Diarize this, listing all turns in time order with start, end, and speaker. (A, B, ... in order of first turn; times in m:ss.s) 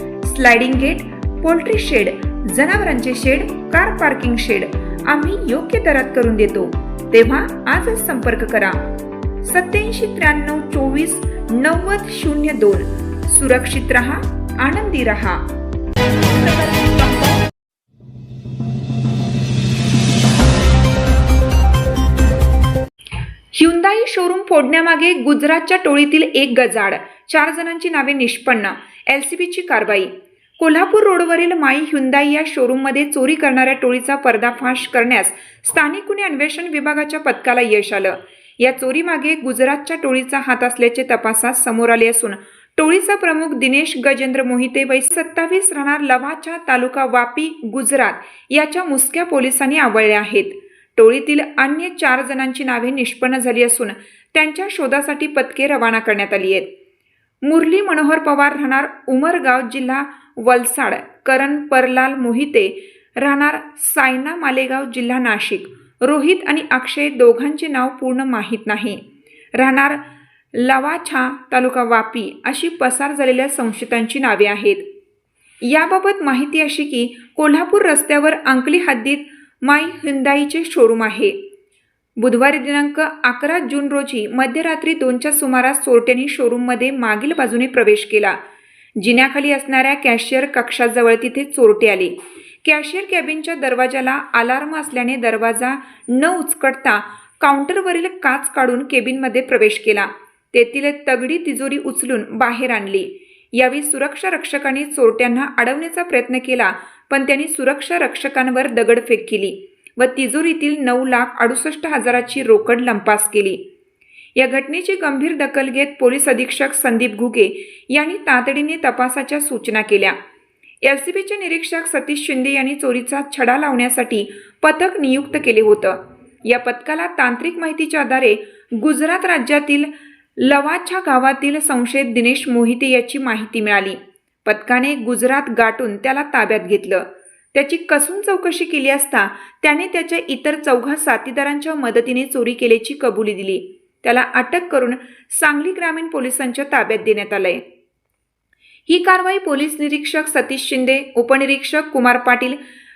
0:00.2-0:08.8 A
0:09.4-0:15.4 A
0:16.4-0:17.1 A
0:23.5-0:56.7 A
0:57.4-1:09.0 A
1:09.5-1:14.8 A
1:15.6-1:21.4 A
1:22.2-1:28.4 A
1:29.0-1:53.6 A
1:54.4-2:00.2 A
2:00.8-2:27.6 A
2:28.9-2:32.6 A